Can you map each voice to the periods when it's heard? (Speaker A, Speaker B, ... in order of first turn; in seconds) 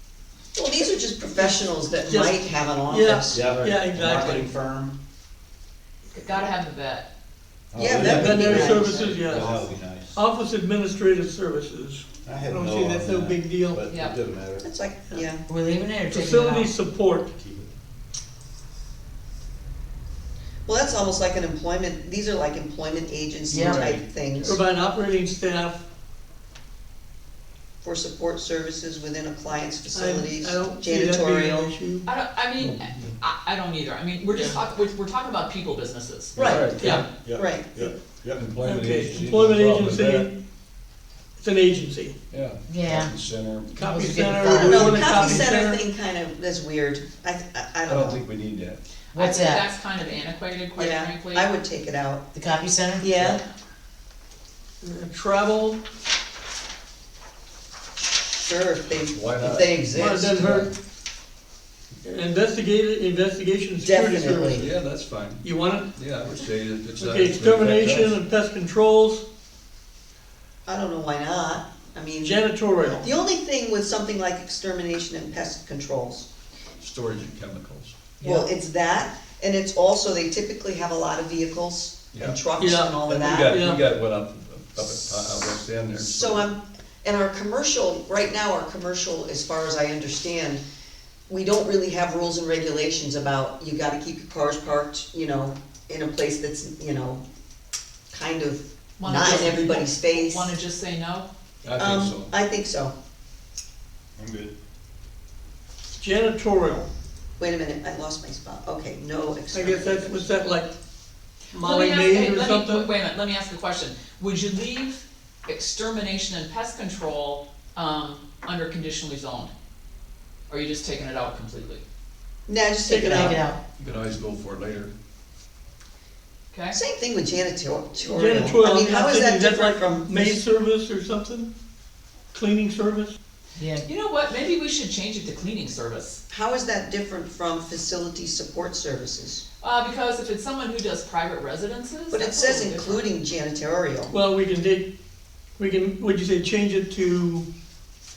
Speaker A: 0.5-3.5, 7.7-9.7, 14.6-15.4, 20.6-24.6, 27.8-31.7, 36.4-36.8, 37.4-37.6, 44.4-48.2, 50.7-52.3, 53.0-53.4, 58.2-60.3, 63.8-64.7, 70.7-72.4, 73.0-76.3, 78.2-83.6, 84.8-90.6, 91.3-97.2, 98.1-100.5, 101.8-102.9, 107.4-110.2, 122.5-123.4, 126.7-130.4, 136.3-139.4, 142.1-144.1
Speaker B: 1.4-4.4, 8.0-9.5, 10.1-13.8, 16.1-17.3, 24.4-25.8, 29.9-32.0, 36.8-37.0, 38.6-40.4, 41.4-42.1, 43.7-45.8, 54.8-55.8, 59.9-60.7, 62.0-64.7, 65.4-65.9, 67.0-69.2, 72.2-73.1, 82.5-83.0, 83.5-83.8, 106.0-106.9, 109.5-110.7, 111.5-112.9, 122.9-123.4, 128.1-131.5, 132.3-133.2, 144.1-144.9, 145.6-147.4
Speaker C: 3.3-5.0, 7.7-10.2, 12.2-14.7, 17.4-17.7, 36.3-36.6, 37.1-38.4, 104.2-104.5
Speaker D: 3.4-4.3, 32.6-33.1, 36.4-37.1, 38.4-40.3, 42.3-43.8, 47.9-48.8, 59.0-60.7, 64.5-68.2, 76.8-78.1, 82.1-82.4, 83.0-86.4, 101.6-102.3, 123.8-124.9
Speaker E: 6.1-7.1, 13.9-14.1, 32.0-36.4, 49.1-51.5, 99.0-101.3, 111.5-119.5, 120.5-121.8, 126.5-126.8, 133.8-136.2, 139.6-143.1
Speaker F: 15.5-16.7, 23.5-23.9, 42.7-43.1, 43.8-45.4, 49.1-49.6, 52.3-53.1, 78.2-78.5, 123.1-123.6, 133.6-133.8